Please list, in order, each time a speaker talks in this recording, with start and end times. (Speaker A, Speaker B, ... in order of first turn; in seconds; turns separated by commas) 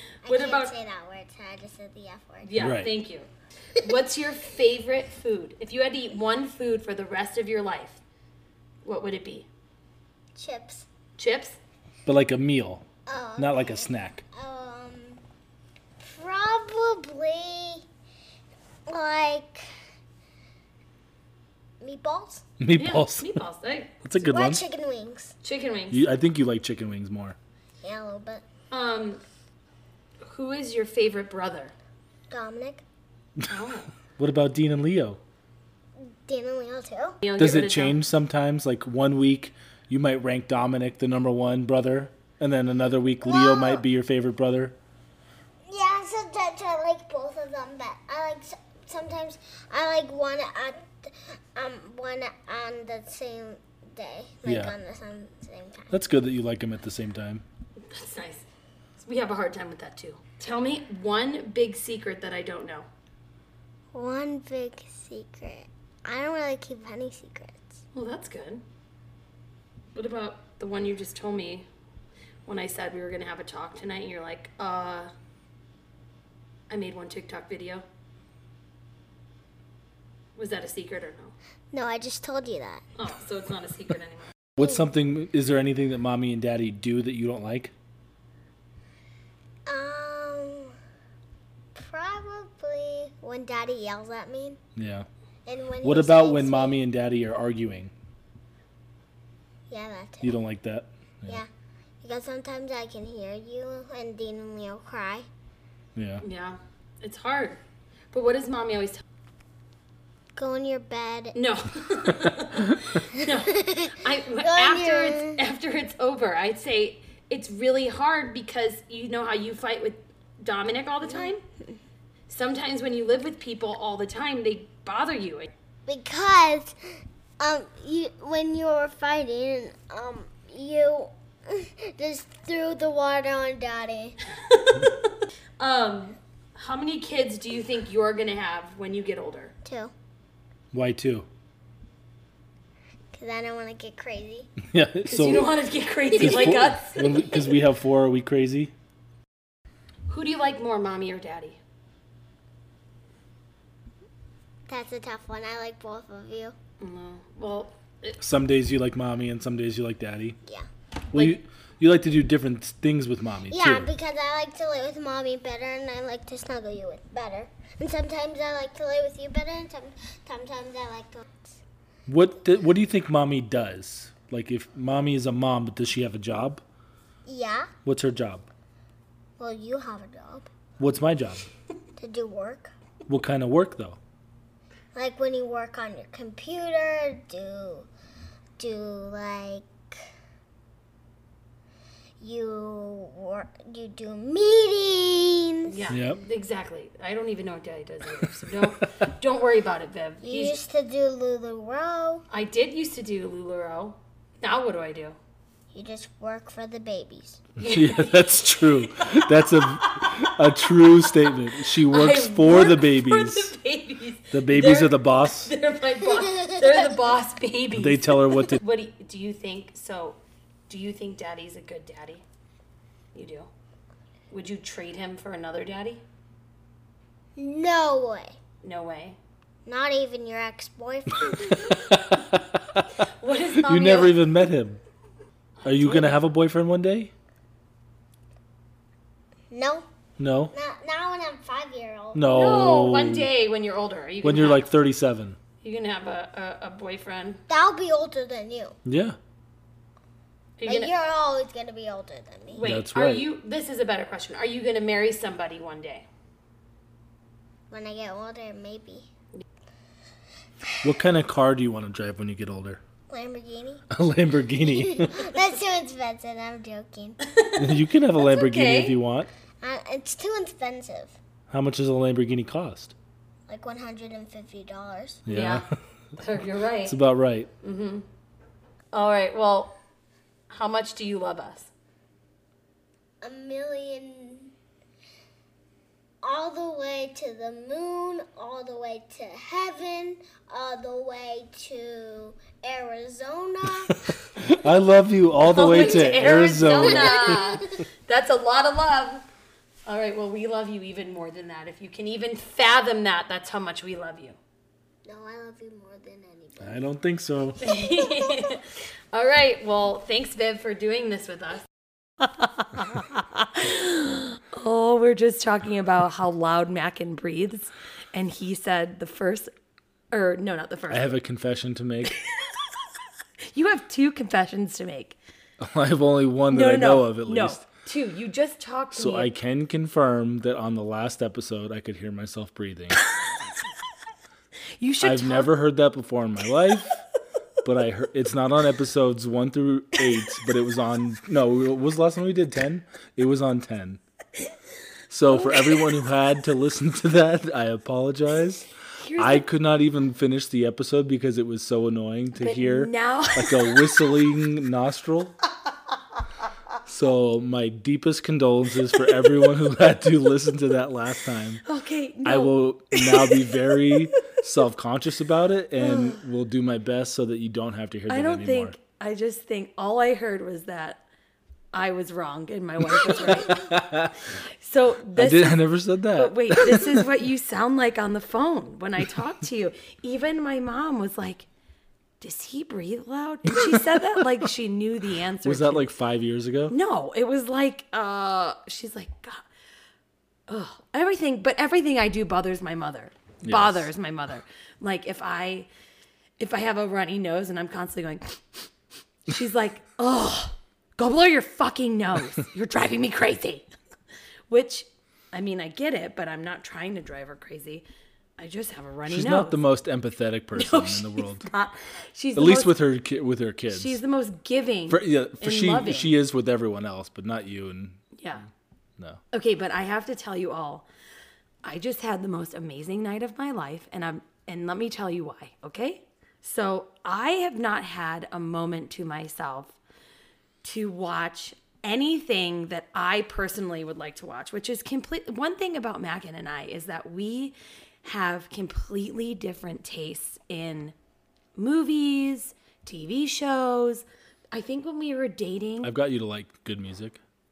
Speaker A: 0.2-0.7, Speaker B: 0.2-2.5, Speaker A: 2.4-8.0, Speaker C: 2.6-2.9, Speaker A: 8.8-9.5, Speaker B: 10.4-10.9, Speaker A: 11.2-11.6, Speaker C: 12.1-12.8, Speaker B: 13.1-15.2, Speaker C: 13.4-14.2, Speaker B: 16.0-17.8, Speaker B: 18.9-19.6, Speaker B: 21.8-22.4, Speaker C: 22.6-23.4, Speaker A: 22.8-24.0, Speaker C: 24.0-24.6, Speaker B: 24.2-25.3, Speaker A: 25.4-26.1, Speaker C: 25.9-27.4, Speaker B: 27.8-28.4, Speaker A: 28.7-29.2, Speaker A: 30.2-31.7, Speaker B: 32.3-32.8, Speaker A: 33.5-33.9, Speaker C: 34.2-35.2, Speaker B: 36.0-37.2, Speaker A: 37.2-38.0, Speaker C: 37.4-44.8, Speaker B: 45.7-55.9, Speaker C: 54.5-54.8, Speaker C: 55.9-57.4, Speaker A: 57.8-58.5, Speaker A: 59.0-62.9, Speaker B: 63.9-67.7, Speaker A: 67.9-68.6, Speaker A: 70.0-71.7, Speaker A: 72.5-75.1, Speaker A: 76.7-77.8, Speaker A: 80.4-81.3, Speaker B: 81.7-82.8, Speaker A: 83.0-84.3, Speaker C: 84.6-87.7, Speaker B: 89.7-90.7, Speaker B: 91.8-94.6, Speaker C: 94.8-95.1, Speaker B: 95.5-96.8, Speaker C: 95.8-97.9, Speaker B: 99.7-100.4, Speaker C: 100.2-101.4, Speaker B: 102.0-105.3, Speaker C: 106.0-106.2, Speaker A: 106.2-107.6, Speaker A: 108.1-109.0, Speaker B: 110.4-111.3, Speaker A: 111.3-121.4, Speaker B: 113.2-115.4, Speaker A: 122.3-125.5, Speaker B: 125.9-126.8, Speaker B: 127.4-134.2, Speaker A: 134.3-139.5, Speaker B: 139.7-139.9, Speaker C: 140.7-141.3, Speaker B: 143.2-144.5, Speaker C: 144.6-145.5, Speaker A: 145.1-147.5, Speaker C: 146.2-148.7, Speaker A: 150.1-151.6, Speaker B: 154.7-156.6, Speaker A: 156.8-158.2, Speaker C: 158.2-160.4, Speaker C: 161.1-163.9, Speaker B: 163.5-171.6, Speaker C: 172.1-176.6, Speaker B: 177.3-177.7, Speaker C: 177.8-178.5, Speaker B: 179.4-180.5, Speaker C: 180.8-181.5, Speaker B: 182.0-182.7, Speaker C: 183.1-184.0, Speaker B: 184.9-187.9, Speaker B: 188.6-189.7, Speaker B: 192.2-195.8, Speaker A: 195.7-200.6, Speaker C: 195.9-196.2, Speaker B: 200.2-202.2, Speaker A: 202.3-205.2, Speaker B: 205.7-207.4, Speaker A: 207.6-209.0, Speaker C: 207.6-213.5, Speaker A: 209.9-220.2, Speaker C: 214.3-215.5, Speaker C: 217.7-218.6, Speaker A: 220.7-222.2, Speaker A: 223.1-223.5, Speaker A: 224.3-226.0, Speaker B: 227.4-228.3, Speaker A: 228.6-229.2, Speaker B: 229.7-231.7, Speaker C: 231.3-232.9, Speaker A: 231.7-232.3, Speaker A: 233.0-234.2, Speaker C: 233.6-234.8, Speaker A: 235.6-236.1, Speaker C: 235.7-237.1, Speaker B: 239.5-239.9, Speaker C: 240.2-240.5, Speaker B: 240.5-242.2, Speaker C: 242.1-243.3, Speaker A: 242.2-244.7, Speaker C: 244.2-245.4, Speaker A: 245.6-247.4, Speaker B: 247.5-248.7, Speaker C: 248.8-249.2, Speaker A: 250.6-250.9, Speaker B: 250.7-252.7, Speaker A: 252.5-256.1, Speaker C: 252.6-253.3, Speaker B: 257.7-259.1, Speaker C: 260.8-262.8, Speaker B: 263.1-263.8, Speaker C: 263.9-265.3, Speaker B: 264.7-267.2, Speaker A: 267.2-269.0, Speaker C: 267.6-269.3, Speaker B: 269.6-271.1, Speaker C: 271.5-272.9, Speaker B: 273.5-275.2, Speaker C: 275.3-275.7, Speaker A: 275.3-275.6, Speaker A: 276.2-277.0, Speaker C: 276.9-277.5, Speaker A: 277.6-278.1, Speaker A: 278.9-279.8, Speaker A: 280.5-281.7, Speaker B: 283.2-284.5, Speaker B: 286.2-293.9, Speaker C: 293.8-297.6, Speaker A: 295.5-299.2, Speaker B: 297.1-297.6, Speaker A: 299.9-304.4, Speaker B: 305.1-306.9, Speaker C: 306.6-307.6, Speaker A: 307.6-311.7, Speaker B: 307.8-308.5, Speaker A: 312.2-319.5, Speaker A: 320.1-321.2, Speaker C: 320.9-322.2, Speaker A: 323.5-325.2, Speaker C: 325.6-327.6, Speaker A: 326.5-329.3, Speaker C: 328.9-333.1, Speaker A: 334.8-335.5, Speaker C: 335.0-337.0, Speaker C: 337.6-344.0, Speaker C: 345.1-355.4, Speaker A: 345.3-345.9, Speaker A: 349.0-349.5, Speaker A: 352.4-354.2, Speaker C: 356.9-361.6, Speaker A: 359.0-359.3, Speaker A: 361.6-364.1, Speaker C: 362.2-368.8, Speaker A: 365.8-366.2, Speaker A: 368.1-371.0, Speaker A: 371.7-373.7, Speaker C: 373.0-374.2, Speaker A: 374.6-381.5, Speaker C: 375.1-377.1, Speaker A: 382.2-385.9, Speaker C: 383.6-384.2, Speaker C: 385.4-386.7, Speaker A: 386.7-389.4, Speaker A: 390.5-395.7, Speaker C: 393.4-393.9, Speaker A: 396.4-398.4, Speaker A: 399.3-403.6, Speaker A: 404.5-407.8, Speaker A: 408.4-409.6, Speaker C: 409.1-411.5, Speaker A: 410.6-412.7, Speaker C: 412.4-414.0, Speaker A: 413.7-416.1, Speaker C: 414.9-418.1, Speaker A: 418.2-418.4, Speaker A: 419.3-420.9, Speaker A: 421.6-429.8, Speaker A: 430.6-440.9, Speaker A: 441.6-445.9, Speaker C: 445.8-447.2